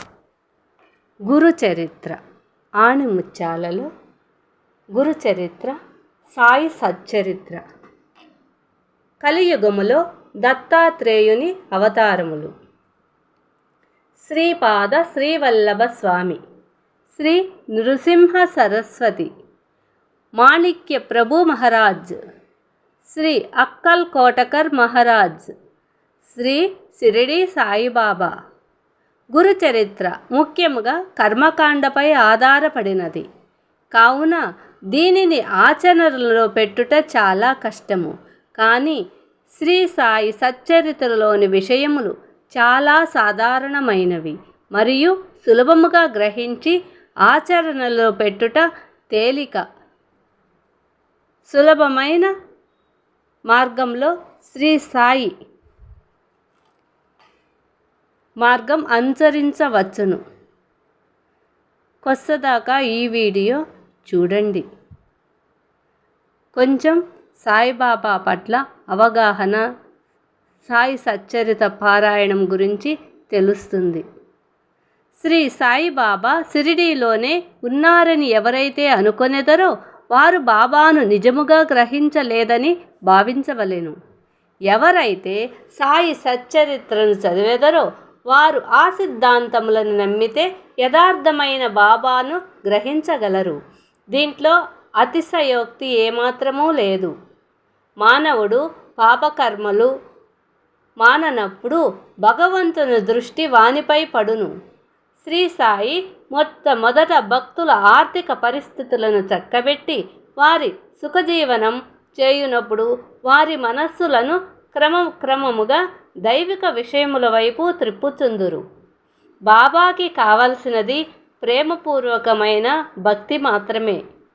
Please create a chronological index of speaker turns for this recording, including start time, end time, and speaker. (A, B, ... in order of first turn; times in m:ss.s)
0:01.3-0:02.2 A
0:02.8-0:03.9 A
0:05.0-0:05.8 A
0:06.3-0:07.6 A
0:09.2-0:12.5 A
0:14.2-0:16.4 A
0:17.1-0:19.3 A
0:20.4-0:22.2 A
0:23.1-0:25.5 A
0:26.3-0:28.3 A
0:29.3-0:33.2 A
0:33.9-0:34.4 A
0:34.9-0:39.0 A
0:39.6-0:49.6 A
0:51.5-0:52.3 A
0:53.5-0:55.3 A
0:58.4-1:00.2 A
1:02.0-1:04.6 A
1:06.6-1:09.6 A
1:10.7-1:14.0 A
1:15.2-1:23.9 A
1:24.7-1:33.6 A
1:34.1-1:37.1 A
1:38.0-1:39.9 A
1:41.0-1:44.5 A
1:45.2-1:58.6 A
1:59.5-2:04.0 A